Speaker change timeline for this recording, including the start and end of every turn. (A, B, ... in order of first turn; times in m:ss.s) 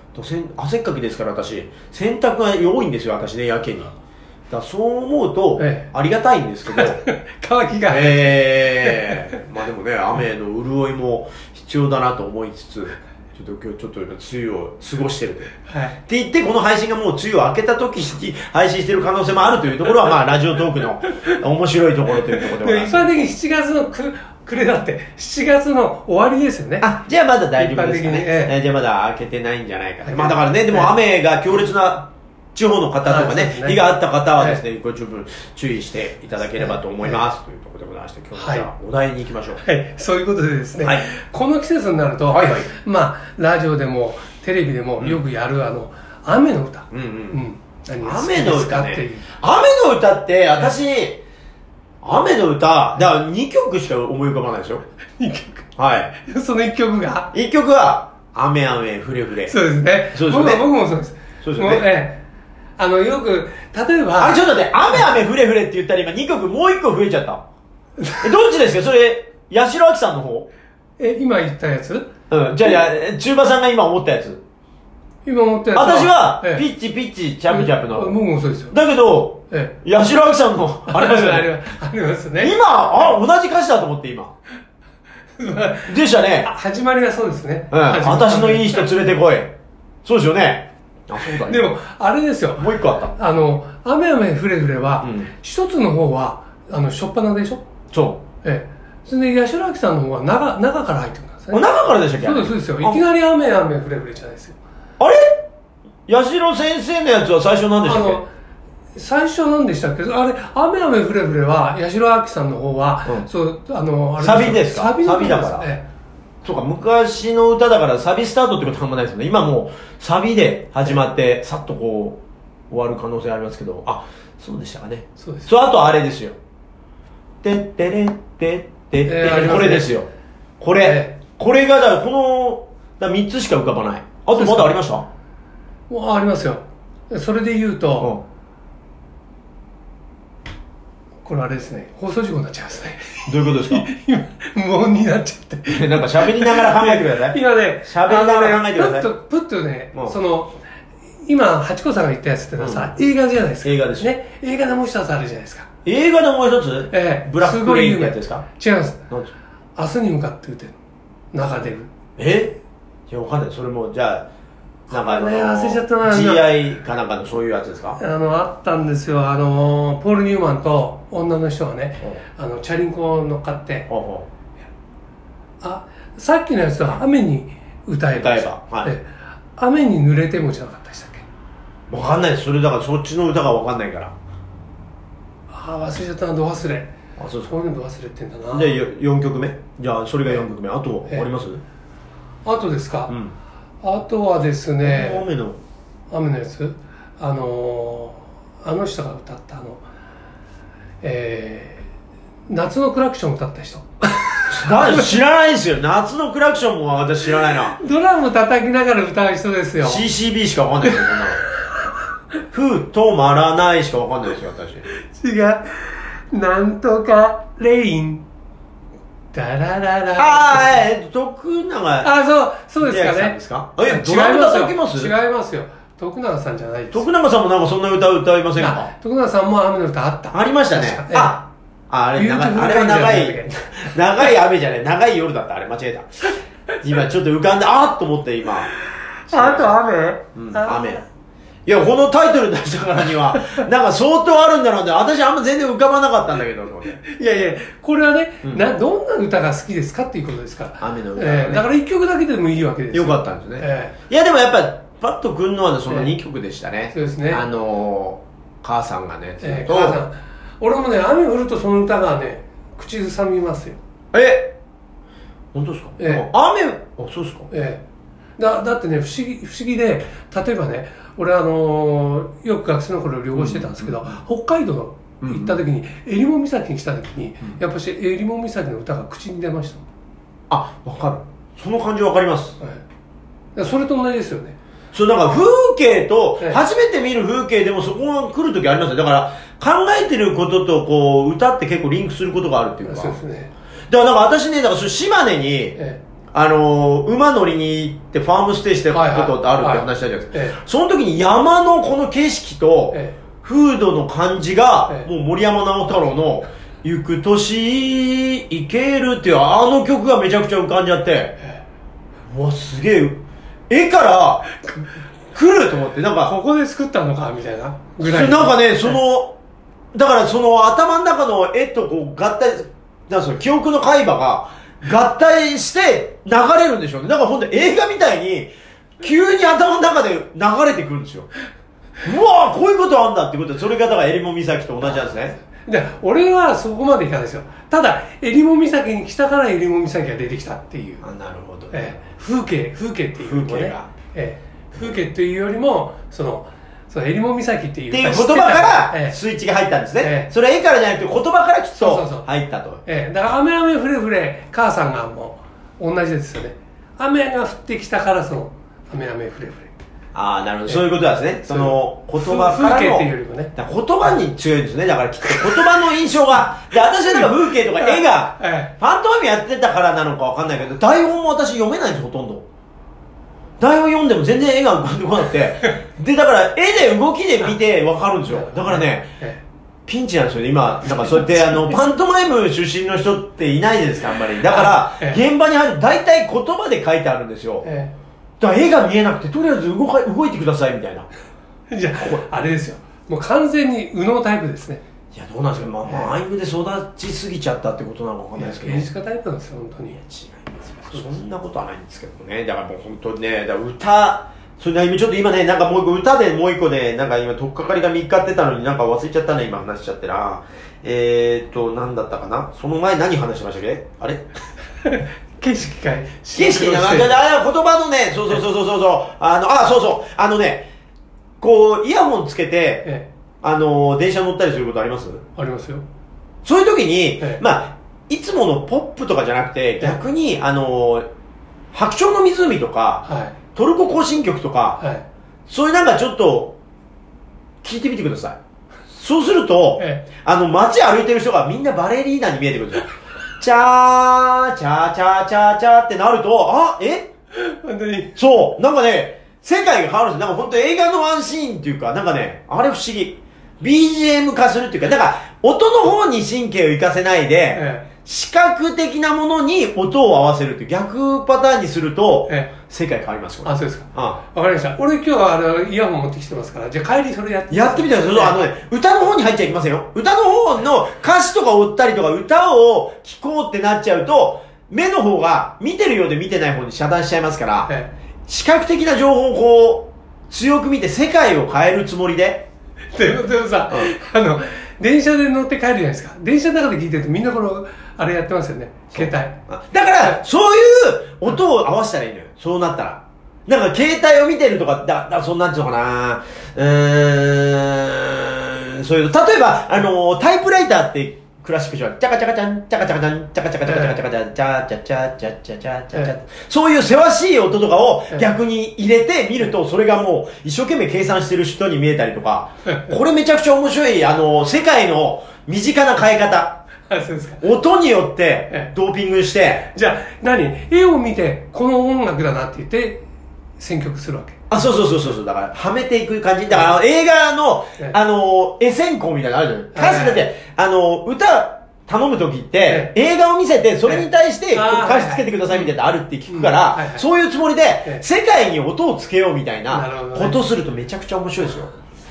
0:00.1-0:03.9 A
0:04.5-0:07.0 A
0:05.6-0:05.9 B
0:06.7-0:09.2 B
0:07.9-0:15.5 A
0:15.7-0:15.9 B
0:16.0-0:23.1 A
0:22.3-0:26.9 B
0:26.8-0:39.6 A
0:27.6-0:28.5 B
0:30.0-0:30.9 B
0:33.1-0:33.8 B
0:34.4-0:34.6 B
0:36.6-0:37.2 B
0:38.4-0:38.7 B
0:39.6-0:49.3 B
0:40.8-0:41.1 A
0:42.3-0:42.7 A
0:46.9-0:47.4 A
0:48.0-0:51.2 A
0:52.0-0:54.8 A
0:55.2-0:57.3 B
0:55.8-0:56.1 A
0:57.3-0:59.6 A
0:59.5-1:02.2 B
1:00.1-1:00.6 A
1:01.4-1:01.8 A
1:02.8-1:04.4 B
1:04.2-1:07.4 A
1:08.0-1:08.3 B
1:08.2-1:10.5 A
1:11.0-1:12.1 B
1:12.3-1:14.4 A
1:15.2-1:16.6 B
1:15.7-1:18.2 A
1:17.5-1:18.7 B
1:18.7-1:21.5 A
1:19.5-1:19.8 B
1:20.9-1:22.6 B
1:22.4-1:24.3 A
1:25.4-1:28.9 B
1:25.8-1:26.5 A
1:27.7-1:29.5 A
1:30.0-1:31.7 A
1:31.3-1:37.6 B
1:32.6-1:33.1 A
1:35.0-1:35.3 A
1:37.9-1:38.2 A
1:38.4-1:41.7 B
1:41.5-1:43.0 A
1:42.2-1:44.6 B
1:45.0-1:45.4 A
1:46.1-1:48.2 A
1:47.8-1:48.3 B
1:48.9-1:55.8 B
1:54.2-1:55.7 A
1:56.4-2:02.2 A
2:02.7-2:06.4 A
2:05.2-2:05.5 B
2:07.4-2:10.1 A
2:09.0-2:10.0 B
2:10.6-2:15.0 A
2:10.8-2:11.1 B
2:14.3-2:14.7 B
2:15.9-2:18.1 B
2:21.2-2:30.6 B
2:23.2-2:23.9 A
2:25.7-2:29.1 A
2:31.2-2:35.7 B
2:32.6-2:32.9 A
2:33.6-2:34.1 A
2:35.8-2:38.4 A
2:36.9-2:39.0 B
2:39.8-2:40.8 B
2:41.3-2:41.9 B
2:42.2-2:42.6 A
2:43.1-2:44.3 A
2:44.9-2:48.0 A
2:44.9-2:46.5 B
2:48.0-2:53.9 B
2:53.9-2:54.3 A
2:55.6-3:01.2 B
2:58.2-2:58.9 A
3:01.9-3:04.1 A
3:05.5-3:06.9 B
3:07.2-3:07.5 A
3:07.4-3:08.8 B
3:08.5-3:11.6 A
3:12.4-3:13.1 B
3:13.1-3:13.3 A
3:13.8-3:15.2 B
3:14.8-3:15.6 A
3:16.1-3:19.8 B
3:21.0-3:21.9 B
3:22.5-3:25.2 B
3:24.5-3:27.8 A
3:27.7-3:30.0 B
3:29.8-3:31.4 A
3:30.8-3:31.5 B
3:32.5-3:34.8 A
3:35.1-3:38.2 B
3:39.3-3:40.8 B
3:40.2-3:42.1 A
3:42.0-3:47.0 B
3:42.8-3:45.1 A
3:46.9-3:48.9 A
3:48.6-3:51.4 B
3:50.3-3:58.7 A
3:52.1-3:54.2 B
3:59.3-4:01.0 B
3:59.3-3:59.8 A
4:00.3-4:01.0 A
4:01.6-4:07.0 A
4:07.0-4:13.9 B
4:10.8-4:11.6 A
4:12.9-4:20.0 A
4:16.9-4:17.4 B
4:19.4-4:23.8 B
4:24.1-4:24.5 A
4:25.5-4:27.5 A
4:26.0-4:26.3 B
4:27.5-4:27.8 B
4:28.4-4:39.8 B
4:33.3-4:34.2 A
4:35.2-4:35.6 A
4:40.5-4:42.6 A
4:43.6-4:44.6 B
4:44.9-4:53.2 A
4:52.8-4:53.5 B
4:53.9-4:55.8 A
4:56.3-5:11.4 A
4:58.9-5:00.6 B
5:02.9-5:03.2 B
5:12.3-5:14.5 A
5:15.3-5:16.3 A
5:16.2-5:19.0 B
5:18.0-5:19.4 A
5:19.9-5:31.3 A
5:32.0-5:35.4 A
5:35.6-5:41.0 B
5:41.0-5:42.0 A
5:41.7-5:49.2 B
5:43.2-5:43.9 A
5:47.9-5:52.8 A
5:50.0-5:50.3 B
5:51.8-5:52.3 B
5:52.8-5:59.7 B
6:00.1-6:12.4 A
6:01.4-6:03.5 B
6:05.2-6:05.8 B
6:07.1-6:08.7 B
6:13.6-6:19.1 A
6:18.2-6:19.4 B
6:19.9-6:27.7 A
6:21.1-6:21.8 B
6:24.4-6:25.2 B
6:27.6-6:27.9 B
6:28.4-6:31.1 A
6:31.7-6:34.8 B
6:35.1-6:38.9 A
6:35.8-6:36.2 B
6:38.4-6:40.0 B
6:40.0-6:54.2 A
6:40.9-6:41.1 B
6:54.8-6:57.2 B
6:56.3-7:00.7 A
7:01.4-7:02.9 A
7:03.4-7:05.2 A
7:05.4-7:05.8 B
7:06.4-7:11.0 A
7:11.7-7:14.8 A
7:13.0-7:13.4 B
7:14.8-7:15.0 B
7:15.5-7:16.6 A
7:17.6-7:18.4 A
7:18.9-7:27.1 A
7:19.8-7:20.0 B
7:27.3-7:28.2 B
7:28.2-7:44.2 A
7:37.5-7:37.9 B
7:42.3-7:42.5 B
7:43.4-7:48.4 B
7:47.5-7:57.7 A
7:58.3-8:02.5 A
8:02.9-8:09.4 B
8:08.9-8:36.6 A
8:23.6-8:24.0 B
8:36.9-8:37.4 B
8:37.4-8:39.7 A
8:39.7-8:43.0 B
8:43.6-8:44.4 B
8:44.5-9:01.7 A
8:49.7-8:50.2 B
8:52.7-8:52.9 B
8:53.8-8:55.7 B
8:56.3-8:57.0 B
8:59.7-9:00.4 B